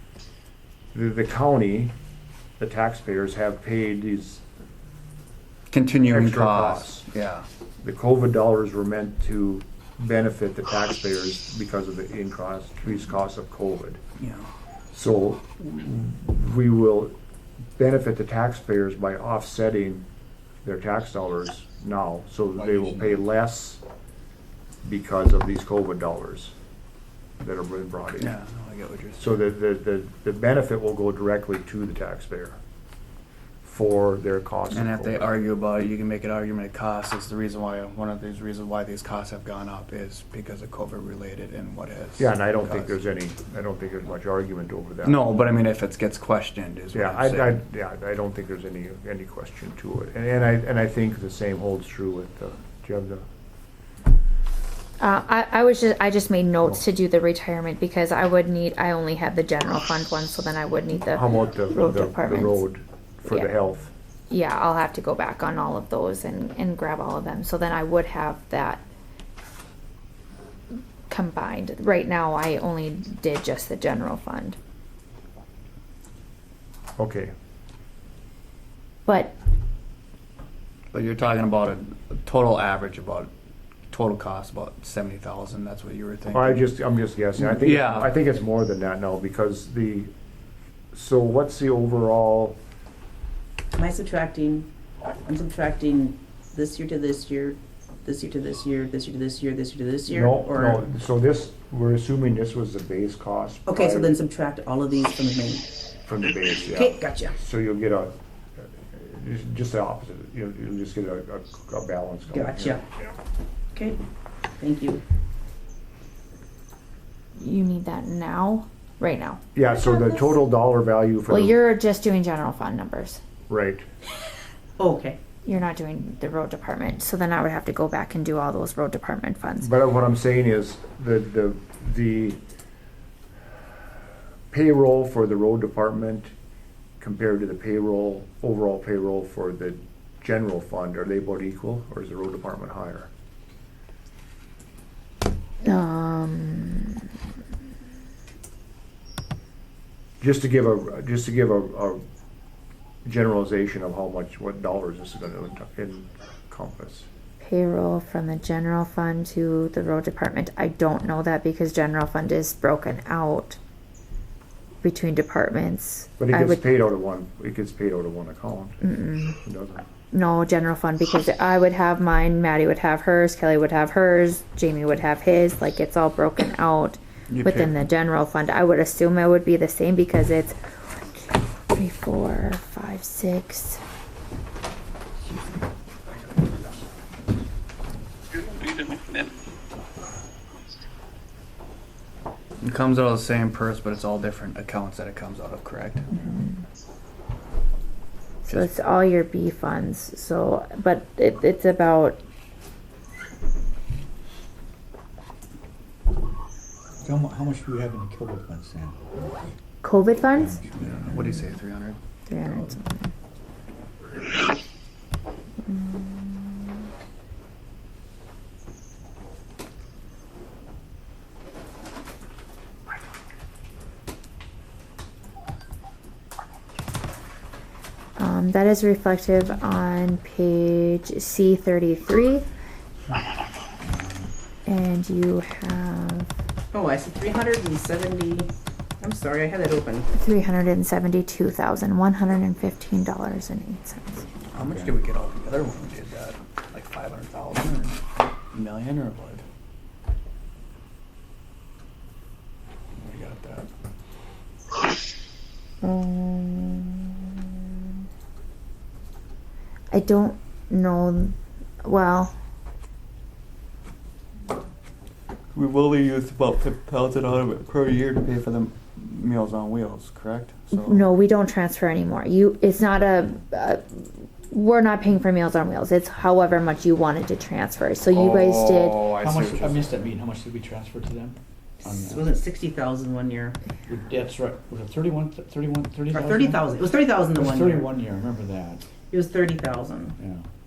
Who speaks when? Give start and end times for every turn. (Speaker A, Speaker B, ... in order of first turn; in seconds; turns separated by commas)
Speaker A: 0.9-1.9, Speaker A: 2.6-4.4, Speaker B: 5.7-7.5, Speaker A: 6.1-7.1, Speaker A: 7.8-14.0, Speaker B: 14.2-14.5, Speaker A: 14.9-17.1, Speaker A: 17.8-20.1, Speaker A: 20.6-23.8, Speaker A: 24.8-26.5, Speaker A: 27.4-28.3, Speaker B: 28.2-29.4, Speaker A: 29.2-32.6, Speaker A: 33.6-35.3, Speaker B: 34.7-43.0, Speaker A: 42.2-45.2, Speaker B: 45.0-47.6, Speaker A: 46.9-53.2, Speaker C: 55.0-62.7, Speaker A: 61.0-63.9, Speaker C: 64.3-68.8, Speaker C: 71.1-74.6, Speaker A: 77.0-77.3, Speaker C: 79.0-79.3, Speaker B: 80.9-83.3, Speaker B: 83.9-86.6, Speaker A: 86.3-90.1, Speaker B: 87.4-88.1, Speaker A: 90.9-92.6, Speaker D: 93.8-94.7, Speaker D: 95.2-100.8, Speaker A: 100.1-104.1, Speaker D: 103.7-105.7, Speaker A: 106.0-112.8, Speaker D: 106.5-107.4, Speaker D: 112.3-112.8, Speaker D: 113.7-114.0, Speaker D: 114.6-115.0, Speaker C: 117.4-119.4, Speaker A: 119.5-121.6, Speaker D: 119.6-120.4, Speaker C: 121.3-123.2, Speaker A: 123.5-123.8, Speaker D: 124.8-125.2, Speaker C: 125.5-129.7, Speaker A: 129.6-132.4, Speaker A: 134.5-136.3, Speaker A: 137.0-143.1, Speaker C: 145.6-147.1, Speaker A: 150.2-152.0, Speaker A: 153.1-157.1, Speaker C: 157.4-163.6, Speaker C: 164.8-166.6, Speaker A: 166.2-168.9, Speaker C: 168.8-169.4, Speaker A: 169.4-169.8, Speaker C: 170.1-183.8, Speaker B: 177.3-177.8, Speaker B: 188.8-189.0, Speaker B: 192.6-196.1, Speaker C: 198.4-202.2, Speaker B: 198.5-198.7, Speaker E: 207.0-209.0, Speaker C: 209.8-210.6, Speaker E: 210.4-211.3, Speaker B: 210.8-212.7, Speaker C: 212.3-213.1, Speaker C: 215.6-216.7, Speaker C: 228.2-232.5, Speaker E: 233.8-234.2, Speaker C: 234.7-236.3, Speaker D: 236.7-240.1, Speaker C: 240.1-244.3, Speaker B: 244.5-248.0, Speaker E: 244.6-244.9, Speaker B: 248.5-249.4, Speaker B: 252.9-253.7, Speaker C: 255.8-257.7, Speaker C: 259.9-262.3, Speaker B: 265.5-271.1, Speaker C: 270.7-279.1, Speaker B: 278.1-279.9, Speaker E: 279.1-282.3, Speaker D: 281.8-283.6, Speaker E: 283.9-286.7, Speaker D: 286.1-287.9, Speaker E: 287.3-288.8, Speaker D: 289.1-290.2, Speaker E: 290.2-290.4